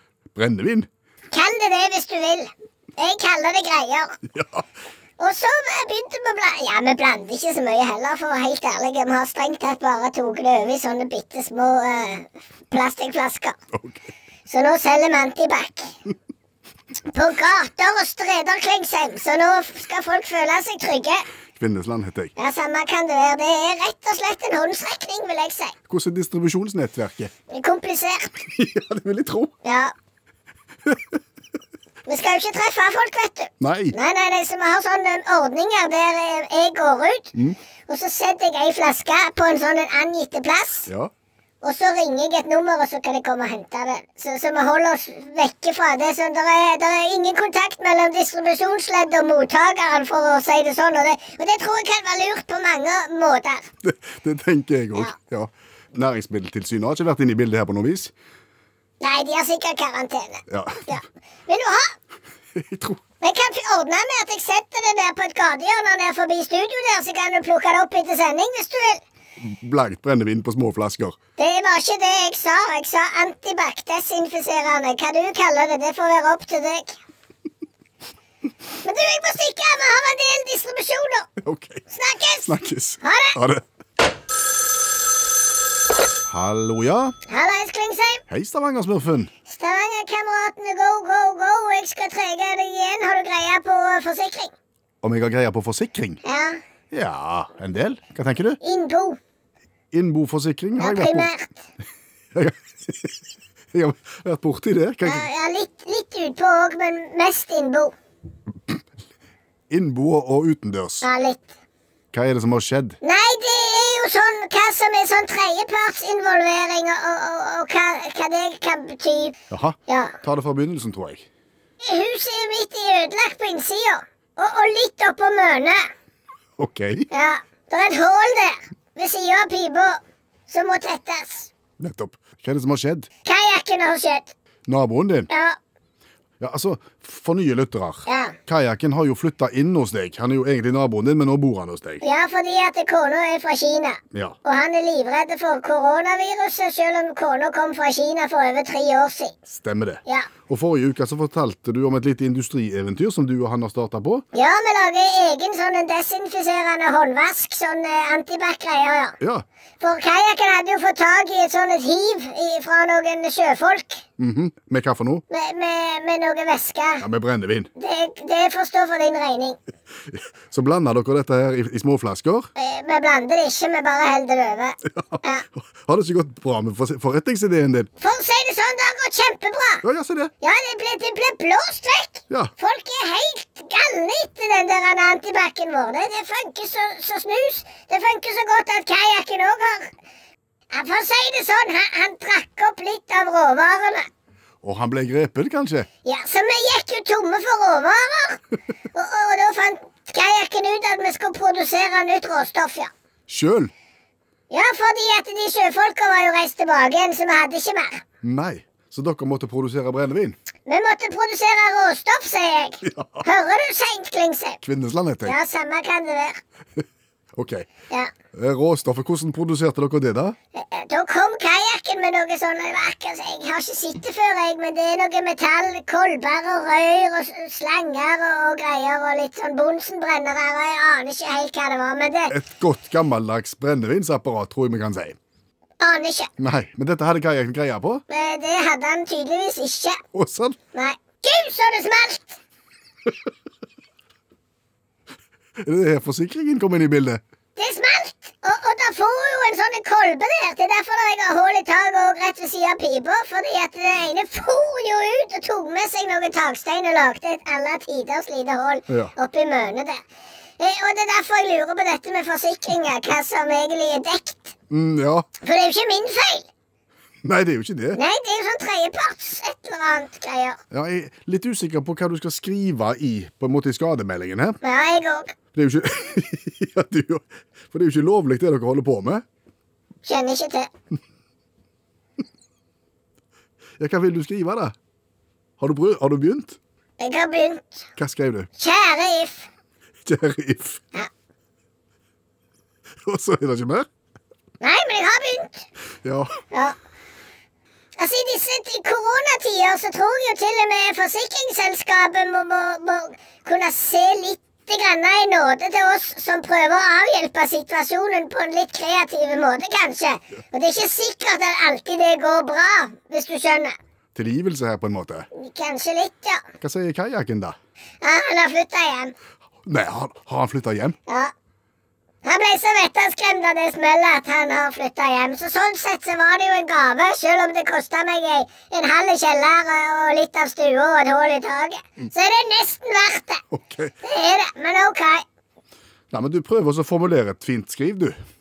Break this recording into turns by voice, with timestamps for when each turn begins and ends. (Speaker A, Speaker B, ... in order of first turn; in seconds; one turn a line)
Speaker A: 0.3-0.9
Speaker B: 1.3-4.2
Speaker A: 4.2-4.7
Speaker B: 5.2-13.6
Speaker A: 13.7-14.1
Speaker B: 14.5-15.9
Speaker B: 17.1-21.3
Speaker A: 21.5-22.3
Speaker B: 22.4-25.8
Speaker A: 25.9-27.3
Speaker B: 27.5-28.4
Speaker A: 28.4-29.5
Speaker B: 29.6-29.9
Speaker B: 32.1-37.4
Speaker A: 33.6-34.0
Speaker B: 37.9-40.9
Speaker B: 41.6-53.7
Speaker A: 53.8-58.1
Speaker B: 59.0-62.0
Speaker A: 60.5-61.0
Speaker A: 62.5-63.0
Speaker B: 63.2-69.0
Speaker A: 69.4-71.2
Speaker B: 71.4-77.0
Speaker B: 78.8-81.3
Speaker A: 81.4-81.8
Speaker B: 81.9-83.4
Speaker A: 82.5-83.7
Speaker A: 86.3-87.2
Speaker B: 87.3-88.2
Speaker A: 88.3-89.3
Speaker B: 89.5-94.5
Speaker A: 95.0-96.2
Speaker B: 96.2-96.6
Speaker A: 96.9-98.6
Speaker B: 98.6-99.2
Speaker A: 99.9-101.3
Speaker B: 100.8-101.7
Speaker A: 102.3-103.2
Speaker A: 103.7-105.3
Speaker B: 105.0-107.9
Speaker A: 109.7-111.1
Speaker B: 111.0-111.5
Speaker A: 112.1-113.0
Speaker B: 113.0-120.2
Speaker A: 119.5-121.3
Speaker B: 121.8-125.9
Speaker A: 126.6-127.1
Speaker B: 127.1-131.5
Speaker A: 131.8-133.1
Speaker B: 133.2-134.3
Speaker A: 134.7-135.3
Speaker B: 135.3-135.6
Speaker A: 136.4-142.0
Speaker B: 138.1-138.4
Speaker B: 142.0-149.4
Speaker A: 149.5-154.2
Speaker B: 154.3-159.2
Speaker A: 159.2-159.4
Speaker B: 159.8-164.0
Speaker A: 164.2-165.2
Speaker B: 165.3-167.1
Speaker A: 167.0-167.7
Speaker B: 167.8-169.6
Speaker A: 170.1-172.5
Speaker B: 172.6-175.4
Speaker A: 174.9-177.9
Speaker B: 178.0-179.8
Speaker A: 179.8-180.3
Speaker B: 180.4-190.0
Speaker B: 190.7-194.1
Speaker A: 194.6-195.9
Speaker B: 196.0-198.4
Speaker B: 198.9-202.9
Speaker A: 203.3-203.7
Speaker B: 204.5-208.0
Speaker A: 208.2-210.4
Speaker B: 210.7-214.6
Speaker A: 212.8-213.3
Speaker A: 214.6-215.4
Speaker B: 215.2-216.4
Speaker A: 217.3-217.7
Speaker A: 218.3-220.4
Speaker B: 220.5-232.3
Speaker A: 232.3-235.2
Speaker B: 235.8-236.3
Speaker A: 236.4-238.0
Speaker B: 238.1-240.0
Speaker A: 240.1-240.6
Speaker B: 240.7-242.4
Speaker A: 245.6-247.2
Speaker B: 247.6-260.0
Speaker B: 260.6-264.6
Speaker A: 264.7-265.3
Speaker B: 265.4-266.5
Speaker A: 267.2-268.0
Speaker B: 267.9-270.6
Speaker A: 270.7-274.6
Speaker B: 274.6-275.4
Speaker A: 275.5-279.2
Speaker B: 280.1-280.7
Speaker A: 283.8-284.8
Speaker A: 285.6-286.6
Speaker B: 287.0-287.8
Speaker A: 288.0-288.5
Speaker B: 288.6-289.5
Speaker A: 290.1-290.8
Speaker A: 293.1-293.9
Speaker B: 294.6-295.7
Speaker A: 296.0-296.3
Speaker B: 298.0-313.8
Speaker A: 314.1-315.3
Speaker B: 315.3-316.5
Speaker A: 316.6-317.6
Speaker B: 318.0-319.1
Speaker A: 319.6-321.0
Speaker B: 321.1-321.3
Speaker B: 322.2-333.4
Speaker A: 333.5-333.9
Speaker B: 334.0-335.2
Speaker A: 336.1-338.2